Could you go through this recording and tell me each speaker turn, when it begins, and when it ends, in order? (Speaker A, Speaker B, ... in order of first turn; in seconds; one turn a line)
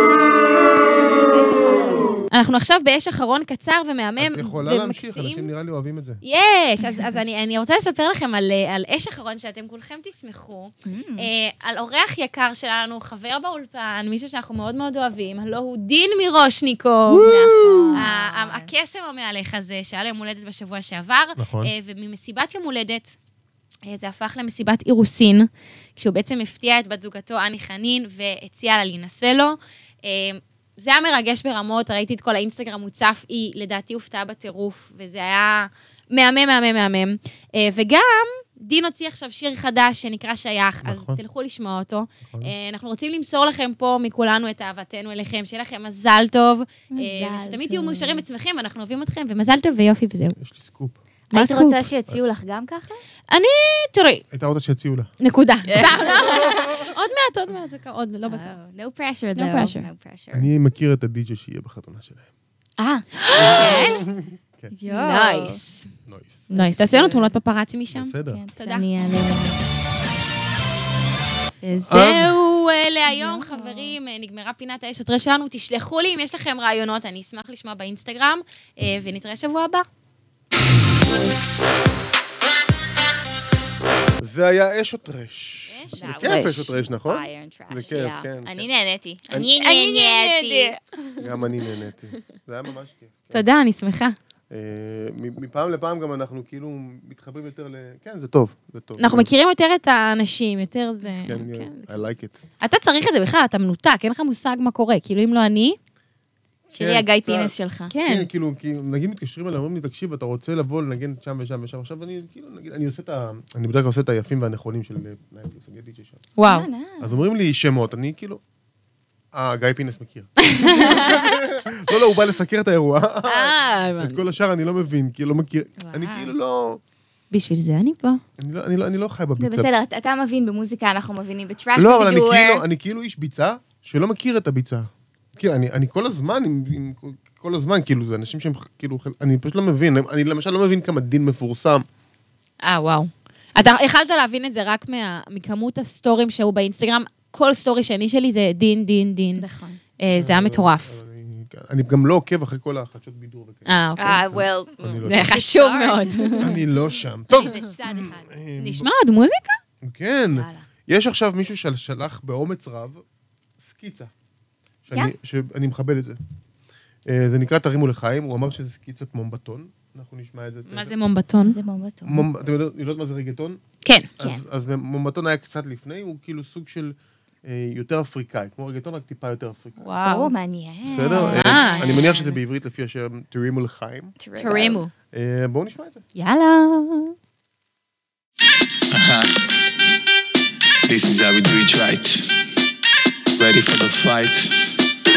Speaker A: 1.3-5.5
Speaker B: 4.2-6.2
Speaker A: 6.2-17.3
Speaker C: 6.8-7.1
Speaker C: 10.8-11.3
Speaker B: 17.1-18.0
Speaker C: 17.2-18.7
Speaker A: 17.9-23.2
Speaker B: 21.4-21.7
Speaker A: 23.9-50.4
Speaker B: 40.8-41.2
Speaker B: 42.2-42.5
Speaker C: 46.9-48.2
Speaker B: 50.4-51.0
Speaker A: 51.3-51.8
Speaker C: 51.3-53.0
Speaker A: 53.3-54.2
Speaker B: 54.3-55.1
Speaker A: 55.2-58.6
Speaker C: 55.7-56.7
Speaker B: 56.2-56.8
Speaker C: 58.2-60.5
Speaker A: 59.4-59.9
Speaker B: 60.3-62.3
Speaker C: 62.8-64.0
Speaker A: 63.2-64.0
Speaker B: 63.6-64.7
Speaker C: 64.7-65.6
Speaker A: 64.9-65.9
Speaker B: 66.1-66.5
Speaker C: 66.5-67.4
Speaker A: 66.5-68.9
Speaker B: 67.9-68.4
Speaker C: 68.3-69.6
Speaker A: 71.6-79.8
Speaker B: 71.8-72.4
Speaker C: 73.1-74.0
Speaker B: 84.2-88.7
Speaker C: 85.7-90.8
Speaker A: 85.9-86.7
Speaker A: 89.3-90.8
Speaker B: 91.2-93.5
Speaker A: 93.3-94.2
Speaker B: 94.5-99.3
Speaker A: 99.0-102.0
Speaker B: 101.2-102.4
Speaker A: 102.6-105.8
Speaker B: 106.7-116.3
Speaker C: 106.8-107.9
Speaker A: 107.9-108.3
Speaker A: 116.4-116.7
Speaker C: 116.4-117.2
Speaker B: 117.0-118.4
Speaker B: 119.3-126.8
Speaker A: 120.4-121.3
Speaker A: 123.3-124.2
Speaker C: 125.8-126.3
Speaker A: 127.3-128.2
Speaker B: 128.4-129.7
Speaker C: 129.4-132.6
Speaker B: 131.8-141.8
Speaker A: 142.6-149.4
Speaker C: 149.4-149.8
Speaker A: 150.0-150.9
Speaker B: 150.2-153.7
Speaker A: 153.7-154.2
Speaker C: 154.0-156.7
Speaker B: 154.3-155.3
Speaker A: 155.1-156.5
Speaker B: 156.4-158.9
Speaker C: 157.3-158.3
Speaker A: 158.6-159.6
Speaker B: 159.8-163.0
Speaker C: 160.3-160.7
Speaker B: 163.6-164.1
Speaker B: 164.9-166.2
Speaker B: 167.1-171.0
Speaker A: 170.7-171.6
Speaker C: 171.4-172.3
Speaker B: 172.1-173.6
Speaker A: 173.8-174.1
Speaker B: 174.2-179.8
Speaker A: 179.8-180.3
Speaker C: 180.1-182.3
Speaker B: 180.9-184.2
Speaker A: 181.1-182.3
Speaker C: 184.2-184.8
Speaker A: 184.4-184.9
Speaker B: 185.1-186.0
Speaker A: 186.2-187.1
Speaker D: 188.9-189.3
Speaker D: 190.9-192.2
Speaker D: 193.4-194.5